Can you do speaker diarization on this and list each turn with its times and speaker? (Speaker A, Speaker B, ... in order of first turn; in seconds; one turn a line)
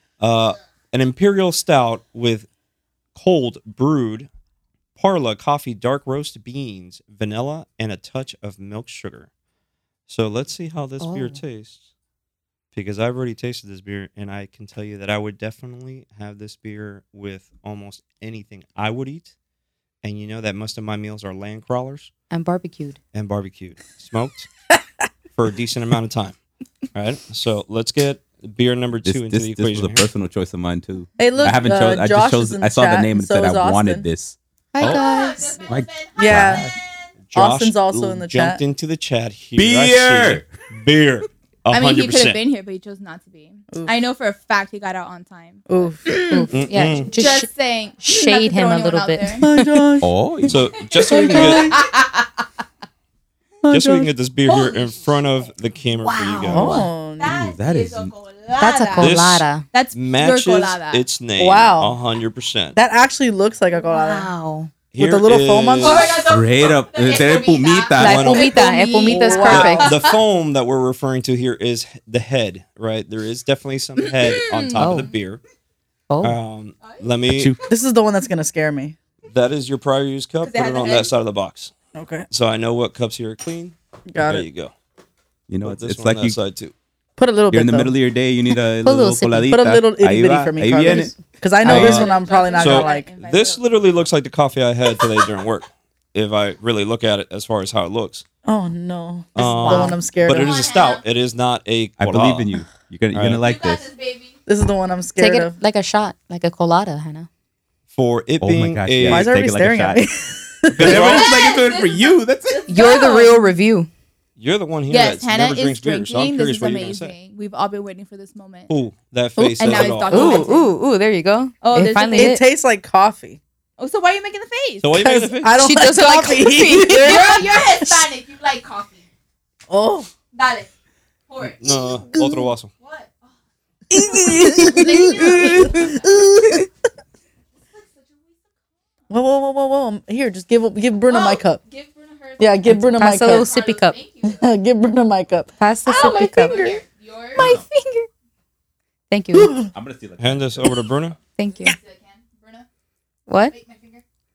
Speaker A: 0.2-2.5
Speaker A: 3.1-4.3
Speaker A: 5.0-9.3
Speaker A: 10.1-11.9
Speaker B: 11.0-11.4
Speaker A: 12.7-19.3
Speaker A: 20.0-22.1
Speaker B: 22.3-23.0
Speaker A: 23.1-24.5
Speaker A: 25.4-26.4
Speaker A: 26.9-30.1
Speaker C: 29.1-34.4
Speaker D: 31.2-34.1
Speaker B: 34.7-35.7
Speaker E: 34.8-37.1
Speaker C: 35.7-36.7
Speaker D: 36.2-36.7
Speaker A: 37.3-42.4
Speaker D: 37.3-38.6
Speaker C: 39.6-40.5
Speaker E: 41.7-46.5
Speaker D: 45.7-46.5
Speaker B: 46.3-47.5
Speaker A: 46.5-47.1
Speaker E: 47.0-49.5
Speaker B: 48.0-49.9
Speaker D: 49.4-50.1
Speaker C: 50.0-50.7
Speaker A: 50.5-51.8
Speaker E: 50.9-52.3
Speaker D: 51.0-51.8
Speaker D: 53.6-54.1
Speaker A: 53.7-56.8
Speaker E: 54.5-55.3
Speaker E: 56.0-59.2
Speaker B: 56.3-56.9
Speaker D: 56.5-57.3
Speaker C: 57.2-58.1
Speaker B: 58.6-59.7
Speaker A: 59.0-62.8
Speaker E: 59.7-61.0
Speaker D: 61.4-62.0
Speaker D: 62.8-64.3
Speaker B: 63.8-64.7
Speaker A: 64.9-66.2
Speaker D: 65.0-66.2
Speaker E: 65.8-70.2
Speaker C: 66.3-68.5
Speaker A: 68.0-68.6
Speaker B: 68.0-70.0
Speaker D: 69.1-69.9
Speaker A: 69.5-75.4
Speaker E: 74.0-75.1
Speaker B: 74.8-75.1
Speaker B: 76.1-76.4
Speaker A: 76.2-77.5
Speaker C: 77.3-77.6
Speaker D: 77.7-79.0
Speaker A: 79.3-81.7
Speaker E: 80.4-81.1
Speaker D: 82.0-82.3
Speaker A: 82.3-84.7
Speaker D: 84.1-84.5
Speaker C: 85.5-86.4
Speaker A: 85.6-86.7
Speaker D: 87.2-87.9
Speaker C: 87.5-91.1
Speaker B: 88.8-89.5
Speaker D: 89.5-93.1
Speaker E: 91.6-93.7
Speaker B: 91.7-91.9
Speaker A: 91.7-98.2
Speaker D: 98.5-100.6
Speaker A: 99.3-102.5
Speaker B: 99.4-100.0
Speaker E: 100.3-101.0
Speaker C: 102.0-103.8
Speaker A: 103.1-103.4
Speaker E: 103.4-104.4
Speaker D: 104.5-105.6
Speaker B: 105.2-107.3
Speaker A: 107.9-109.3
Speaker C: 108.4-110.0
Speaker D: 109.1-111.0
Speaker C: 110.7-112.8
Speaker A: 110.7-111.3
Speaker E: 110.9-113.5
Speaker B: 112.7-113.9
Speaker A: 114.4-117.1
Speaker E: 114.9-118.7
Speaker A: 118.7-120.5
Speaker E: 119.6-120.8
Speaker B: 120.1-122.4
Speaker E: 121.6-122.4
Speaker D: 122.1-123.4
Speaker E: 123.8-125.0
Speaker A: 124.8-125.6
Speaker D: 125.0-128.1
Speaker B: 125.6-127.4
Speaker E: 126.8-129.0
Speaker D: 129.7-130.1
Speaker E: 130.3-130.7
Speaker E: 131.3-131.8
Speaker A: 131.4-132.7
Speaker D: 131.7-132.5
Speaker E: 132.8-133.3
Speaker D: 133.9-136.7
Speaker E: 133.9-136.1
Speaker E: 137.7-138.5
Speaker D: 139.1-141.6
Speaker E: 141.1-144.5
Speaker D: 142.4-143.5
Speaker B: 142.7-144.0
Speaker D: 144.3-146.8
Speaker B: 145.6-146.8
Speaker E: 145.8-147.5
Speaker B: 147.4-148.1
Speaker C: 147.4-147.6
Speaker B: 149.1-149.7
Speaker D: 149.3-149.7
Speaker C: 149.7-150.8
Speaker A: 150.2-151.2
Speaker B: 151.4-151.8
Speaker E: 151.4-152.7
Speaker B: 153.3-153.6
Speaker E: 153.4-154.0